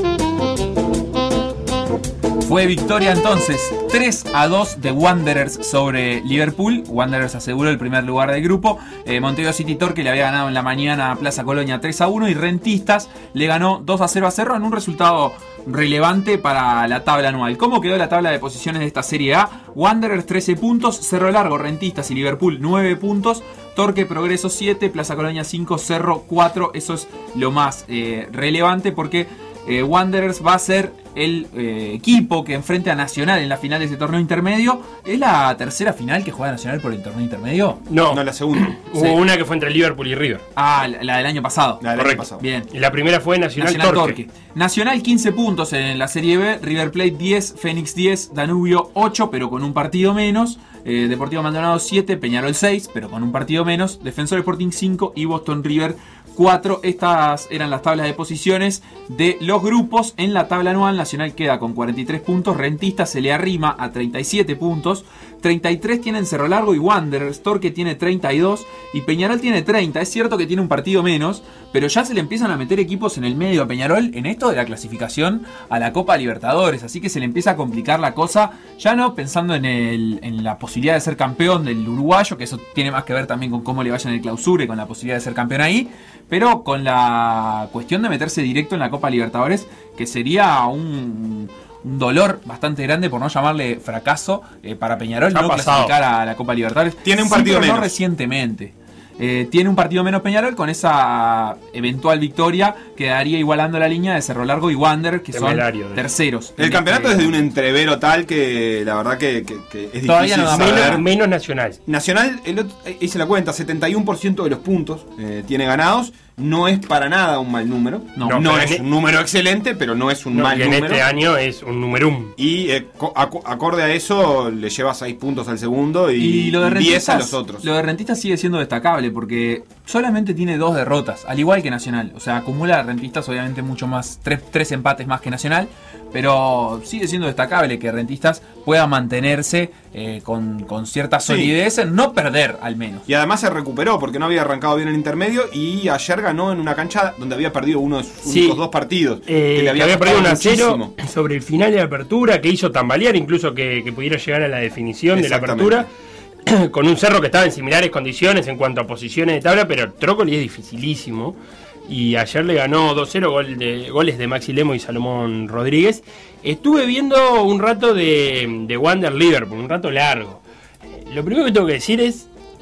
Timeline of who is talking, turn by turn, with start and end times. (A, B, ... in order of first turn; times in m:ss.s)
0:02.4-0:37.8 A
0:37.9-0:40.4 B
0:38.1-0:38.8 C
0:40.6-0:42.7 A
0:41.8-0:42.4 C
0:42.0-0:44.2 B
0:43.6-1:47.4 A
1:35.3-1:35.9 B
1:37.0-1:38.0 C
1:45.3-1:46.0 B
1:46.6-1:51.1 C
1:50.0-1:51.0 A
1:50.4-1:51.8 B
1:51.9-2:01.1 C
1:58.2-1:58.5 A
1:58.2-1:58.8 B
2:00.3-2:02.3 B
2:02.4-2:07.7 C
2:06.2-2:23.0 A
2:21.3-2:21.5 C
2:23.1-2:31.0 C
2:28.2-2:28.6 B
2:29.3-2:35.9 B
2:35.1-2:35.9 C
2:36.5-2:50.4 B
2:51.0-2:52.3 B